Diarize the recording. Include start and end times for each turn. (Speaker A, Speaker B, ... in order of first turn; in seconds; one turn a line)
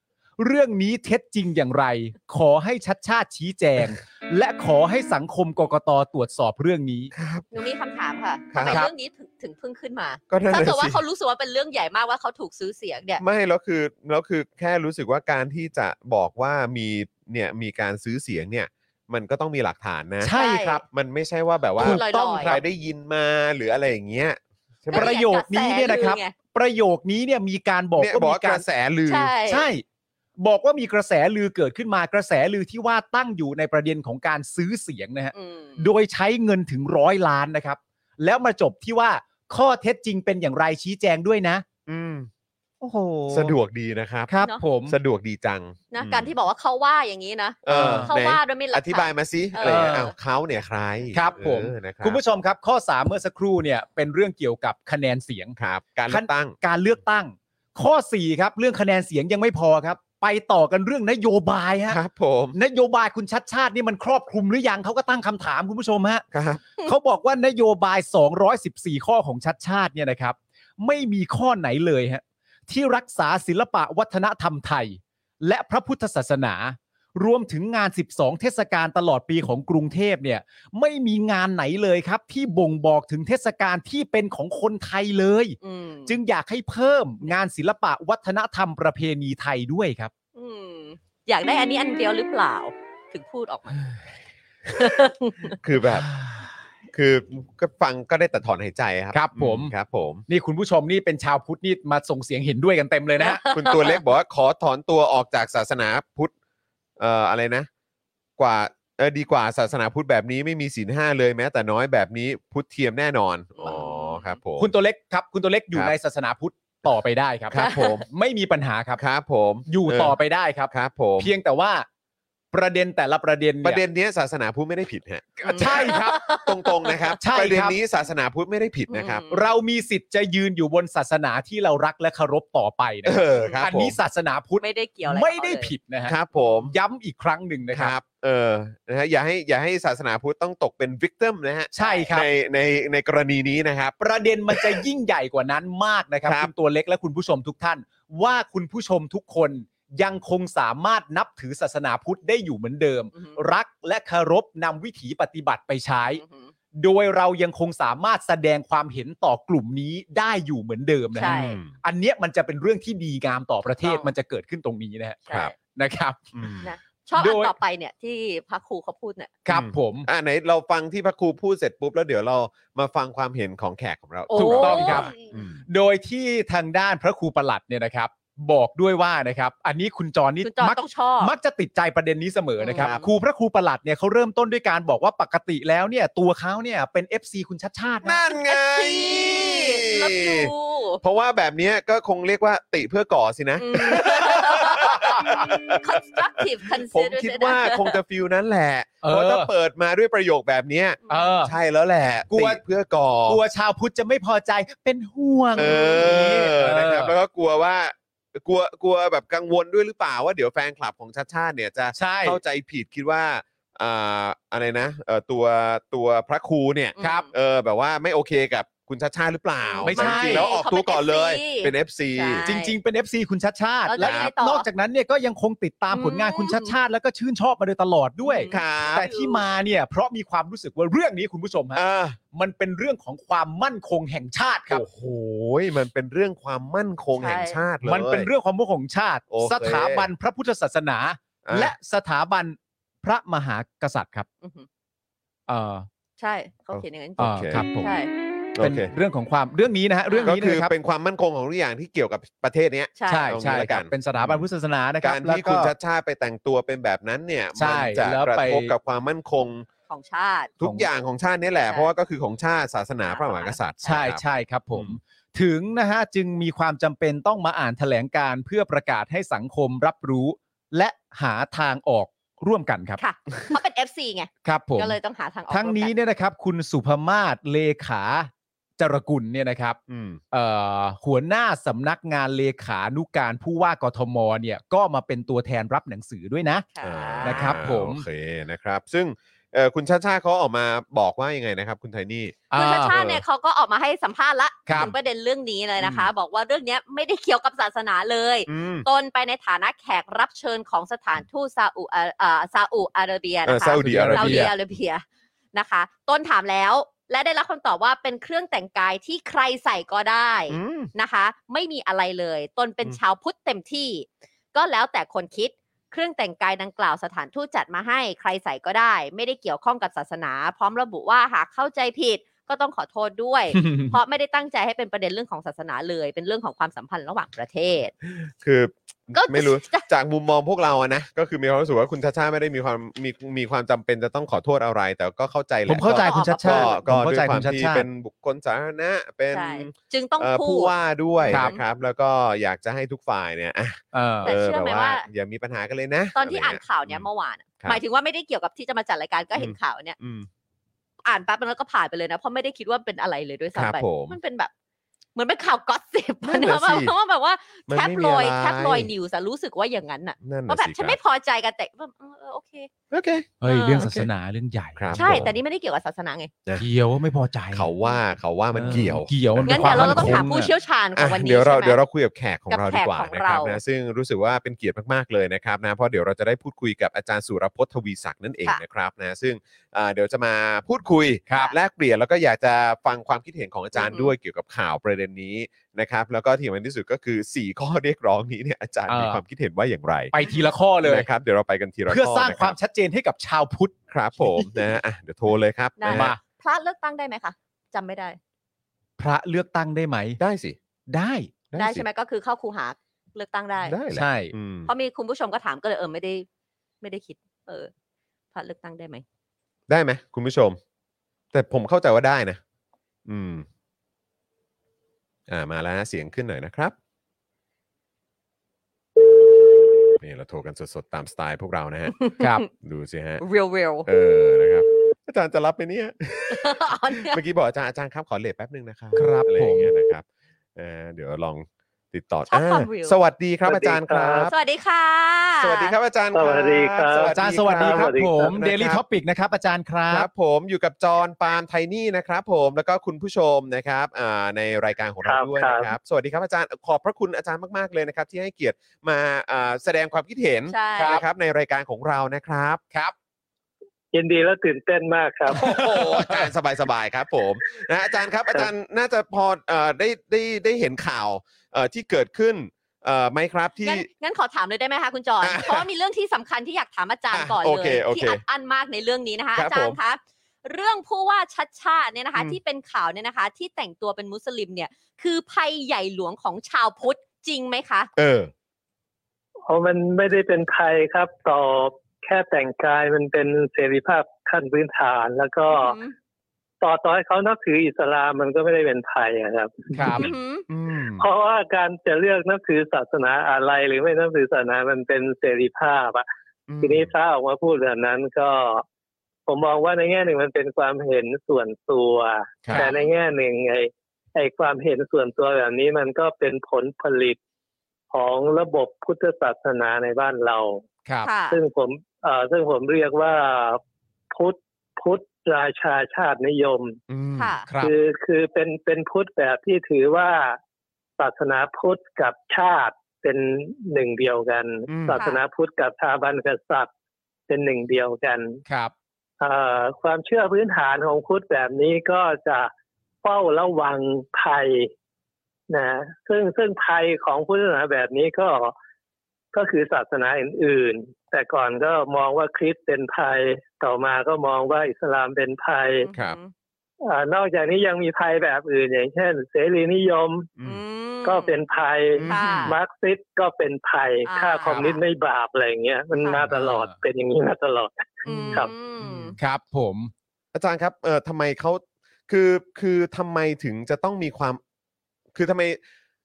Speaker A: 0.4-7.1
Speaker B: 7.1-7.4
Speaker C: 7.5-13.2
Speaker B: 8.5-8.8
Speaker A: 8.6-8.9
Speaker B: 10.3-11.0
Speaker B: 13.2-25.1
Speaker A: 20.2-20.8
Speaker C: 20.3-20.8
Speaker A: 21.8-22.6
Speaker C: 21.8-22.6
Speaker C: 24.9-26.3
Speaker A: 24.9-28.6
Speaker B: 28.0-29.3
Speaker C: 29.1-29.7
Speaker A: 29.5-29.8
Speaker A: 30.4-41.6
Speaker C: 35.3-35.9
Speaker B: 41.9-42.3
Speaker A: 42.8-43.5
Speaker B: 43.3-44.3
Speaker A: 44.3-45.0
Speaker B: 44.8-46.3
Speaker C: 45.9-50.1
Speaker B: 47.6-52.2
Speaker A: 47.7-48.1
Speaker A: 49.6-50.1
Speaker A: 51.1-55.5
Speaker B: 55.6-56.6
Speaker A: 56.1-62.0
Speaker B: 61.9-62.6
Speaker A: 62.5-66.2
Speaker B: 66.3-66.6
Speaker A: 66.8-85.5
Speaker C: 85.6-86.2
Speaker A: 86.1-90.1
Speaker C: 90.3-93.8
Speaker C: 94.8-95.5
Speaker B: 95.6-96.1
Speaker A: 96.0-96.5
Speaker B: 96.9-100.2
Speaker A: 99.1-99.7
Speaker A: 100.3-103.4
Speaker C: 103.2-104.0
Speaker B: 103.5-106.3
Speaker B: 107.0-107.7
Speaker B: 108.4-114.7
Speaker C: 113.6-114.3
Speaker A: 114.6-119.0
Speaker B: 117.5-118.1
Speaker C: 117.5-118.0
Speaker B: 119.0-120.2
Speaker A: 119.7-121.8
Speaker B: 120.7-121.3
Speaker A: 122.5-123.8
Speaker B: 123.6-129.3
Speaker A: 125.4-126.2
Speaker C: 125.4-127.1
Speaker A: 127.2-127.8
Speaker C: 128.9-129.4
Speaker A: 129.3-136.1
Speaker B: 133.0-134.0
Speaker C: 134.6-135.7
Speaker B: 136.1-136.7
Speaker A: 136.7-137.9
Speaker B: 137.7-144.0
Speaker A: 141.7-142.2
Speaker A: 144.0-156.2
Speaker B: 144.5-144.8
Speaker C: 153.1-153.4
Speaker C: 156.1-156.5
Speaker A: 156.8-165.2
Speaker C: 161.1-161.6
Speaker B: 161.2-161.7
Speaker C: 163.8-164.1
Speaker C: 165.2-165.5
Speaker A: 165.7-166.3
Speaker B: 166.3-166.7
Speaker C: 166.6-169.3
Speaker A: 167.2-167.5
Speaker A: 169.4-170.1
Speaker B: 169.5-175.6
Speaker C: 174.3-175.4
Speaker A: 174.3-175.1
Speaker A: 175.7-188.2
Speaker C: 180.4-181.3
Speaker C: 182.6-183.1
Speaker B: 182.7-183.0
Speaker B: 188.0-203.4
Speaker C: 188.3-191.0
Speaker C: 193.6-198.0
Speaker A: 194.8-195.4
Speaker A: 199.0-199.5
Speaker C: 201.1-201.4
Speaker A: 201.1-201.5
Speaker A: 202.3-202.6
Speaker A: 203.3-207.1
Speaker B: 205.6-222.4
Speaker C: 205.6-206.1
Speaker A: 211.9-212.4
Speaker C: 217.0-217.3
Speaker A: 217.0-217.3
Speaker C: 219.6-222.8
Speaker A: 219.8-220.5
Speaker A: 222.4-231.8
Speaker C: 223.9-224.7
Speaker B: 224.0-224.3
Speaker C: 225.9-226.8
Speaker C: 228.2-229.4
Speaker B: 228.5-229.1
Speaker B: 231.7-232.2
Speaker A: 232.3-234.8
Speaker B: 234.7-238.3
Speaker C: 237.2-237.6
Speaker A: 237.8-244.3
Speaker B: 239.3-240.1
Speaker B: 241.4-241.7
Speaker C: 244.4-244.7
Speaker A: 245.5-245.9
Speaker C: 246.2-248.1
Speaker B: 246.7-247.6
Speaker A: 247.2-247.9
Speaker B: 248.6-248.9
Speaker A: 248.6-250.7
Speaker C: 250.1-250.3
Speaker B: 250.2-254.5
Speaker C: 253.0-253.3
Speaker A: 253.1-255.7
Speaker B: 255.0-259.7
Speaker A: 257.5-258.7
Speaker C: 259.9-260.5
Speaker B: 260.6-264.2
Speaker A: 260.6-260.9
Speaker C: 261.6-261.9
Speaker C: 263.1-263.6
Speaker A: 263.8-273.0
Speaker C: 273.0-275.9
Speaker A: 274.4-274.9
Speaker A: 275.5-279.8
Speaker B: 279.9-280.2
Speaker A: 280.3-286.6
Speaker C: 286.7-287.6
Speaker B: 286.8-293.2
Speaker A: 287.2-288.0
Speaker A: 292.5-293.0
Speaker C: 292.5-327.9
Speaker A: 294.6-294.9
Speaker B: 295.8-296.1
Speaker B: 298.5-298.9
Speaker B: 303.4-304.5
Speaker A: 303.8-304.5
Speaker B: 310.5-310.9
Speaker A: 323.6-323.9
Speaker B: 328.1-347.1
Speaker C: 329.1-329.9
Speaker A: 335.7-337.9
Speaker C: 335.9-336.8
Speaker C: 339.3-341.6
Speaker A: 341.3-341.5
Speaker A: 343.9-344.3
Speaker C: 344.2-345.0
Speaker C: 346.1-349.9
Speaker B: 349.3-350.3
Speaker C: 351.0-354.5
Speaker B: 353.5-354.2
Speaker C: 355.1-362.7
Speaker B: 356.2-356.9
Speaker B: 357.7-358.9
Speaker B: 360.2-361.0
Speaker B: 362.9-363.3
Speaker A: 363.4-365.3
Speaker C: 363.4-363.9
Speaker B: 364.8-365.3
Speaker C: 364.9-366.3
Speaker A: 366.6-367.7
Speaker B: 367.5-370.3
Speaker A: 368.5-370.5
Speaker C: 369.4-371.8
Speaker B: 370.9-390.1
Speaker C: 372.5-373.6
Speaker C: 383.8-384.1
Speaker A: 388.9-389.2
Speaker A: 390.1-391.1
Speaker B: 390.8-392.6
Speaker A: 391.9-394.5
Speaker B: 393.9-396.1
Speaker C: 395.8-398.2
Speaker A: 395.9-396.2
Speaker A: 399.0-400.2
Speaker B: 400.2-400.6
Speaker A: 400.9-401.3
Speaker B: 401.5-401.9
Speaker C: 401.6-403.8
Speaker B: 403.6-404.7
Speaker A: 403.9-404.3
Speaker C: 404.6-406.2
Speaker C: 406.8-407.7
Speaker C: 408.3-409.0
Speaker B: 409.7-410.6
Speaker B: 411.3-412.4
Speaker B: 413.1-413.4
Speaker B: 415.3-416.7
Speaker B: 420.0-422.0
Speaker C: 421.9-422.5
Speaker B: 422.5-423.2
Speaker C: 423.2-423.9
Speaker B: 423.8-430.0
Speaker C: 426.3-427.2
Speaker A: 428.9-429.7
Speaker B: 430.6-434.3
Speaker C: 432.3-433.0
Speaker D: 433.4-434.3
Speaker C: 434.3-435.8
Speaker B: 435.4-438.8
Speaker D: 436.1-438.3
Speaker A: 437.1-440.1
Speaker B: 439.9-452.6
Speaker D: 445.0-445.7
Speaker C: 450.5-451.0
Speaker A: 450.8-451.0
Speaker D: 453.9-455.4
Speaker B: 455.3-463.9
Speaker A: 455.3-456.3
Speaker C: 463.6-477.9
Speaker B: 465.2-465.7
Speaker B: 467.1-468.2
Speaker B: 469.4-469.8
Speaker B: 477.9-478.3
Speaker D: 479.5-485.8
Speaker C: 485.5-485.9
Speaker D: 486.6-489.7
Speaker A: 489.7-490.1
Speaker C: 489.9-490.4
Speaker B: 490.5-491.1
Speaker D: 491.0-496.1
Speaker B: 496.5-496.9
Speaker D: 496.6-498.6
Speaker D: 499.3-507.2
Speaker C: 502.5-502.9
Speaker D: 507.9-510.6
Speaker C: 511.0-511.4
Speaker D: 511.3-513.6
Speaker D: 514.1-516.8
Speaker B: 516.9-517.4
Speaker C: 517.1-517.5
Speaker A: 517.5-517.7
Speaker D: 517.6-520.4
Speaker D: 521.0-526.7
Speaker B: 524.7-525.0
Speaker D: 527.3-528.4
Speaker A: 528.5-528.7
Speaker D: 529.2-532.5
Speaker D: 533.0-534.7
Speaker D: 535.5-538.5
Speaker D: 539.3-545.9
Speaker C: 545.8-546.3
Speaker D: 546.8-550.3
Speaker C: 550.4-551.3
Speaker D: 551.0-558.5
Speaker B: 552.0-552.5
Speaker C: 552.1-552.5
Speaker C: 554.0-554.8
Speaker A: 556.2-556.8
Speaker C: 558.0-559.2
Speaker B: 558.3-559.1
Speaker A: 559.2-559.9
Speaker B: 560.3-564.4
Speaker B: 565.1-565.6